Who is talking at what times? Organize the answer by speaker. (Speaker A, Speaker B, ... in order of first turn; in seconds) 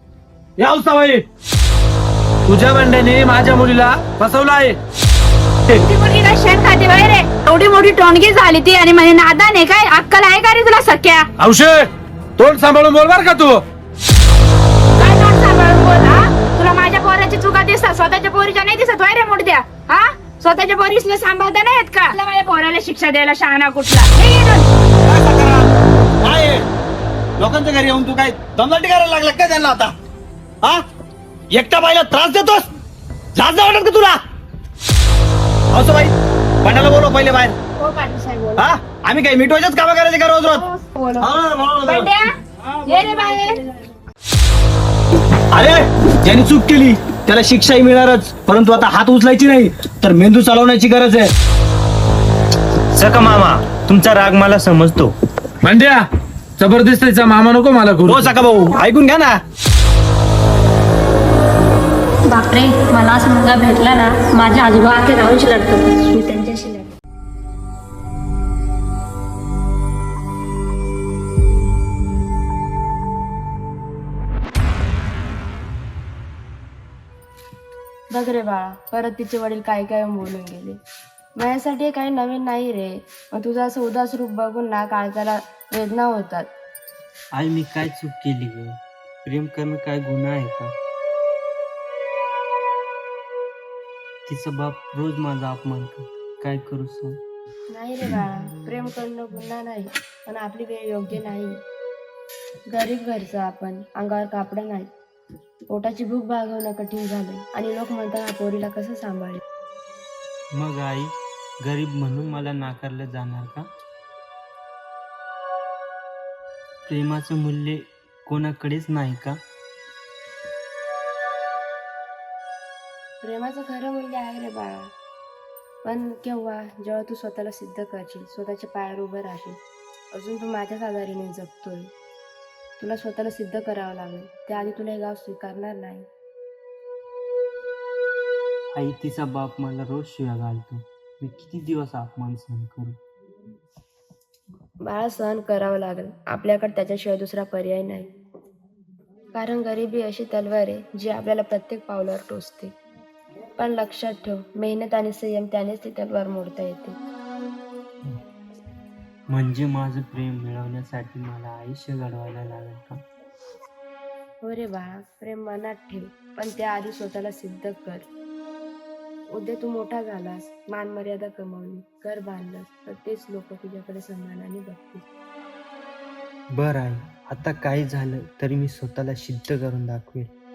Speaker A: 2.5-4.8, 11.4-13.6, 55.6-58.4
Speaker B: 5.8-11.3, 15.0-24.7, 41.9-42.4, 42.9-43.6
Speaker C: 25.1-26.6, 27.4-29.9, 31.5-32.6, 33.4-34.2, 35.7-37.5, 38.6-40.6, 41.2-42.1, 45.5-51.3, 53.2-53.6, 58.1-59.4
Speaker D: 37.8-38.7, 40.6-41.3, 42.9-43.5, 78.1-80.8, 81.4-86.5, 97.7-101.6, 102.7-104.9, 105.7-109.4, 123.2-124.9, 125.8-129.6, 130.1-131.9, 132.8-136.1, 144.8-148.1, 149.3-152.7, 153.6-157.0, 164.4-168.1, 169.3-175.0
Speaker E: 62.3-66.9
Speaker F: 87.3-90.7, 94.3-97.2, 110.5-113.7, 116.9-119.4, 138.7-143.0, 159.3-163.0, 176.5-180.3